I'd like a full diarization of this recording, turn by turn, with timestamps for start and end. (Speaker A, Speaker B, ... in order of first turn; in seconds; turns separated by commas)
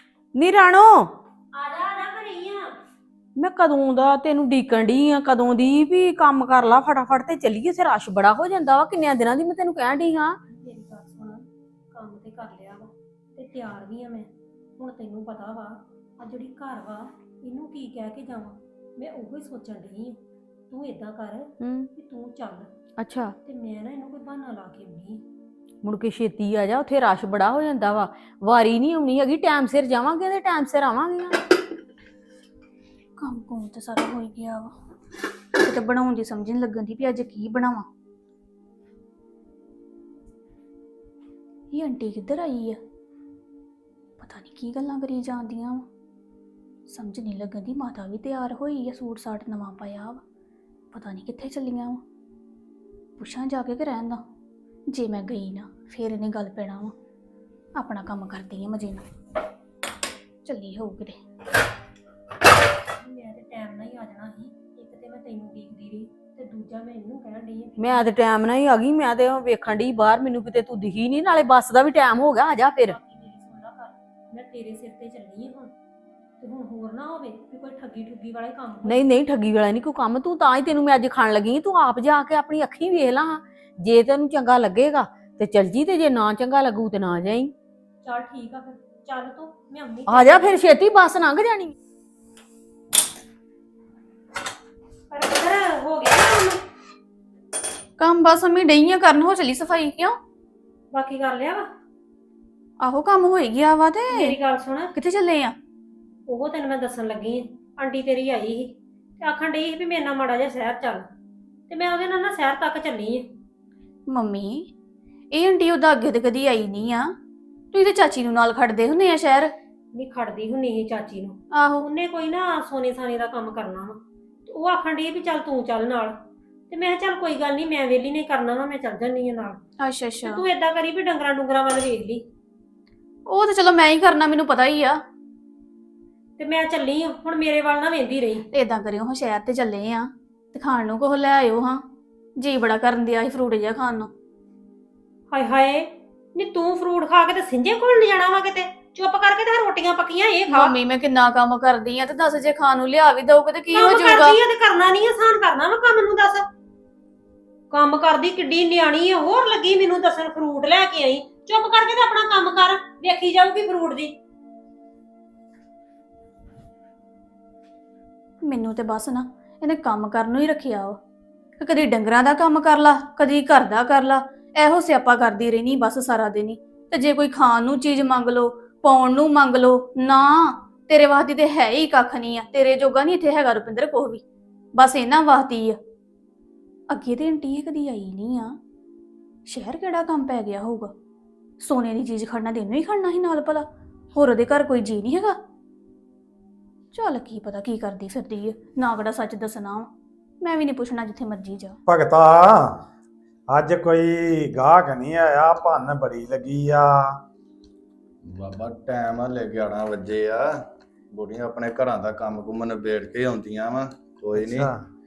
Speaker A: 0.3-1.1, Speaker B: 1.6-2.7, Speaker A: 3.4-10.3, Speaker B: 10.5-20.2, Speaker B: 20.7-22.7, Speaker A: 21.6-21.9, Speaker A: 23.0-23.3, Speaker B: 23.4-25.2, Speaker A: 25.8-31.4, Speaker C: 33.2-34.7, Speaker C: 35.6-37.9, Speaker C: 41.7-42.8, Speaker C: 44.2-45.9, Speaker C: 46.9-50.2, Speaker C: 50.9-52.0, Speaker C: 53.2-54.2, Speaker C: 54.9-56.9, Speaker C: 57.8-59.0, Speaker C: 60.5-61.2, Speaker B: 63.0-68.2, Speaker A: 67.8-72.9, Speaker B: 72.8-75.7, Speaker B: 76.4-79.2, Speaker A: 78.8-87.5, Speaker B: 88.0-90.8, Speaker A: 90.1-91.7, Speaker B: 95.1-96.6, Speaker C: 98.0-100.1, Speaker B: 100.9-101.7, Speaker C: 102.8-104.4, Speaker B: 104.1-104.9, Speaker C: 105.0-105.5, Speaker B: 106.3-111.0, Speaker B: 111.7-113.2, Speaker C: 114.1-114.7, Speaker C: 115.3-117.1, Speaker C: 117.7-119.5, Speaker B: 120.0-126.1, Speaker C: 121.5-121.9, Speaker B: 126.7-129.6, Speaker C: 129.8-130.4, Speaker B: 130.2-132.2, Speaker C: 133.3-135.0, Speaker B: 136.4-138.4, Speaker C: 138.5-141.8, Speaker C: 142.4-144.1, Speaker B: 145.3-150.8, Speaker C: 150.5-154.4, Speaker B: 153.7-156.5, Speaker B: 157.7-164.2, Speaker C: 168.5-171.0, Speaker C: 171.6-184.2, Speaker C: 184.8-185.8, Speaker C: 186.9-188.5, Speaker C: 189.5-190.9, Speaker C: 191.6-193.6, Speaker C: 194.2-195.4, Speaker C: 196.9-199.9, Speaker C: 200.4-201.8, Speaker D: 201.9-202.8, Speaker D: 203.5-207.1, Speaker E: 208.3-210.4, Speaker E: 211.1-214.7, Speaker D: 214.3-214.8